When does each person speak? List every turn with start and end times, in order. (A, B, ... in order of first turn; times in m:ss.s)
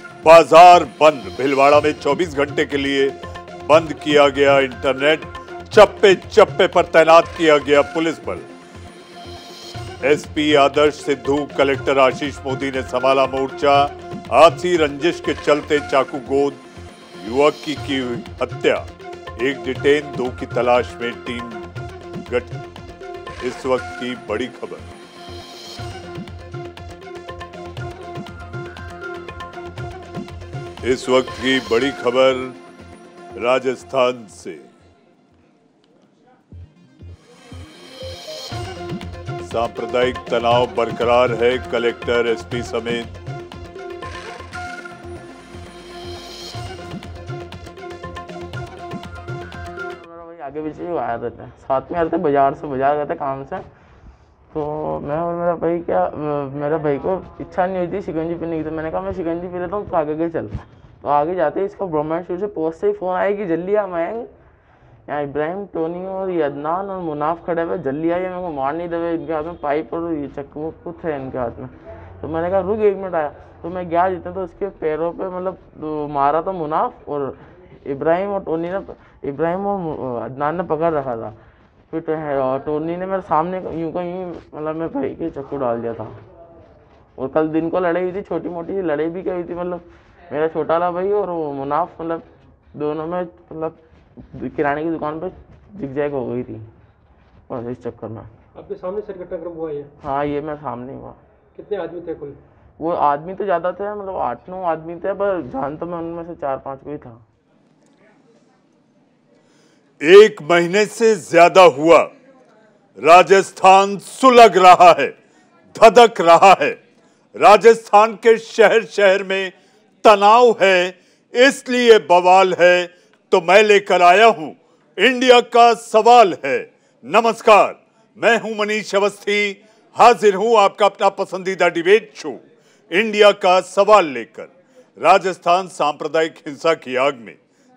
0:00.2-0:08.5 A
0:10.0-0:16.6 A
0:17.2-0:21.6 A
0:22.3-0:22.6 A
0:23.4-0:24.9 A
0:30.8-0:32.6 A
0:33.4-0:34.7 A
0:39.4-0:43.1 A
0:49.9-0:53.7 B
0:54.5-1:04.3 B
1:05.1-1:21.4 B
1:21.9-1:26.2 B
1:27.2-1:36.7 B
1:37.5-1:38.3 B
1:38.6-1:39.9 C
1:40.0-1:41.2 B
1:41.6-1:42.4 C
1:42.8-1:47.2 B
1:50.0-1:52.1 A
1:53.0-1:55.2 A
1:55.7-1:56.8 A
1:57.4-2:17.4 A